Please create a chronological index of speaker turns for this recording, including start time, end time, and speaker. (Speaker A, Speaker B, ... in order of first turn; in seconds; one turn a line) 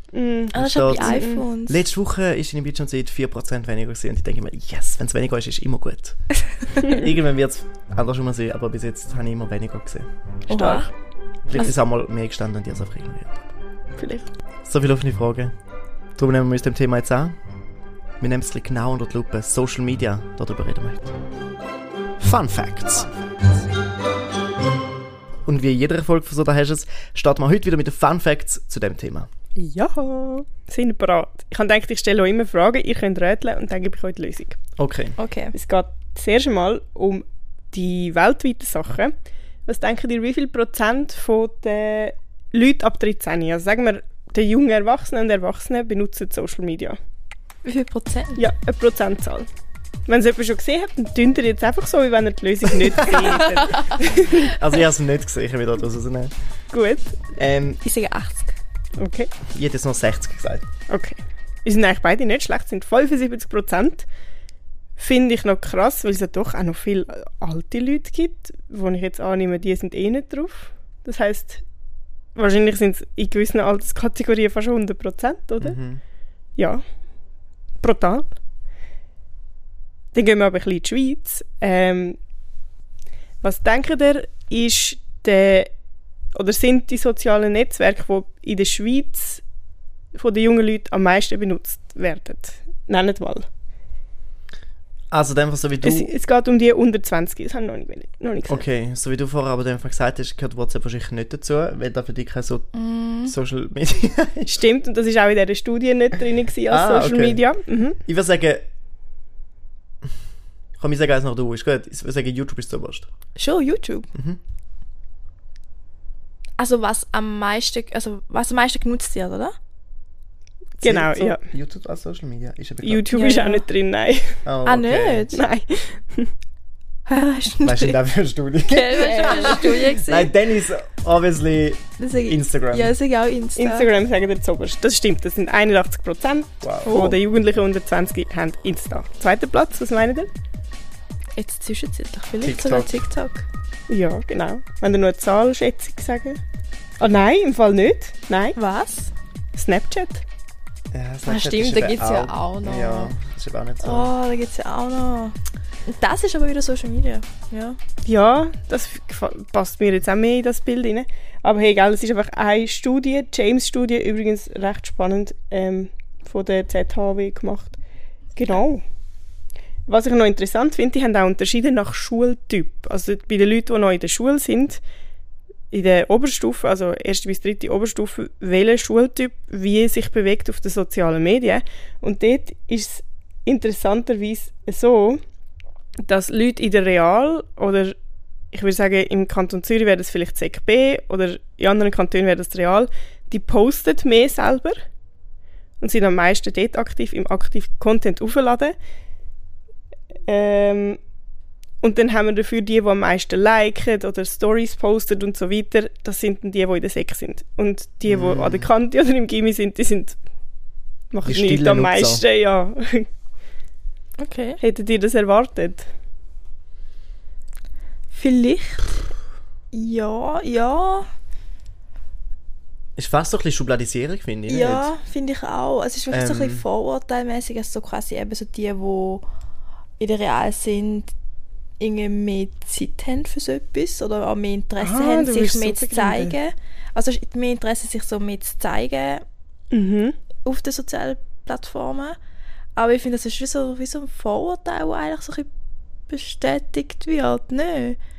Speaker A: 0.1-1.4
Speaker B: 0.5-1.8
Speaker C: 0.5-6.2
Speaker C: 6.8-10.1
Speaker B: 10.5-10.9
Speaker A: 10.5-10.9
Speaker C: 11.5-13.4
Speaker A: 14.0-14.3
Speaker C: 14.6-15.5
Speaker C: 16.1-17.4
Speaker C: 18.2-21.1
Speaker C: 22.2-23.1
Speaker C: 25.4-29.3
Speaker A: 29.6-34.6
Speaker C: 34.8-35.1
Speaker B: 35.2-35.5
Speaker A: 35.5-39.1
Speaker A: 39.6-47.0
Speaker B: 47.6-48.4
Speaker A: 48.4-49.5
Speaker A: 50.1-54.5
Speaker B: 53.1-54.4
Speaker C: 54.3-56.3
Speaker A: 56.7-57.2
Speaker C: 57.3-57.8
Speaker B: 57.8-58.6
Speaker A: 59.0-59.3
Speaker C: 59.5-60.6
Speaker A: 60.9-64.1
Speaker A: 65.0-71.6
Speaker A: 72.3-75.8
Speaker C: 75.6-76.0
Speaker A: 76.6-76.8
Speaker A: 77.8-78.3
Speaker A: 80.1-82.2
Speaker A: 83.4-85.7
Speaker A: 86.3-89.4
Speaker A: 90.1-93.5
Speaker C: 95.1-96.1
Speaker A: 95.8-98.6
Speaker C: 98.5-102.7
Speaker B: 102.7-103.3
Speaker C: 103.2-104.6
Speaker A: 104.5-108.0
Speaker C: 106.7-107.4
Speaker C: 108.0-108.6
Speaker C: 110.8-113.1
Speaker B: 113.3-114.1
Speaker C: 114.1-114.4
Speaker B: 116.6-119.5
Speaker A: 120.8-121.4
Speaker C: 120.8-123.1
Speaker A: 122.8-124.4
Speaker B: 123.1-123.6
Speaker C: 124.4-125.3
Speaker B: 124.6-125.3
Speaker A: 125.3-126.3
Speaker B: 127.1-128.0
Speaker C: 127.6-132.9
Speaker B: 128.7-130.3
Speaker A: 129.0-130.0
Speaker B: 132.0-133.9
Speaker A: 133.6-140.3
Speaker C: 136.6-137.0
Speaker B: 136.8-137.2
Speaker B: 141.3-143.4
Speaker C: 142.4-143.1
Speaker A: 143.9-146.4
Speaker A: 147.0-148.6
Speaker B: 148.6-149.1
Speaker A: 149.5-150.2
Speaker C: 150.9-154.1
Speaker B: 151.2-153.1
Speaker B: 153.8-157.8
Speaker A: 158.0-167.8
Speaker A: 168.3-168.8
Speaker A: 169.9-174.8
Speaker A: 175.7-185.2
Speaker A: 186.0-187.9
Speaker A: 188.5-194.8
Speaker A: 195.8-198.7
Speaker A: 200.3-201.0
Speaker A: 201.8-210.2
Speaker C: 208.1-208.7
Speaker A: 211.1-213.1
Speaker C: 211.2-212.2
Speaker B: 214.2-214.6
Speaker A: 214.6-215.9
Speaker B: 218.1-219.0
Speaker B: 219.7-221.1
Speaker C: 223.0-224.9
Speaker B: 224.5-229.2
Speaker C: 226.1-226.6
Speaker B: 230.0-231.1
Speaker B: 231.8-239.2
Speaker A: 234.8-236.3
Speaker A: 239.7-240.1
Speaker B: 240.4-242.2
Speaker B: 242.8-245.5
Speaker B: 246.1-248.0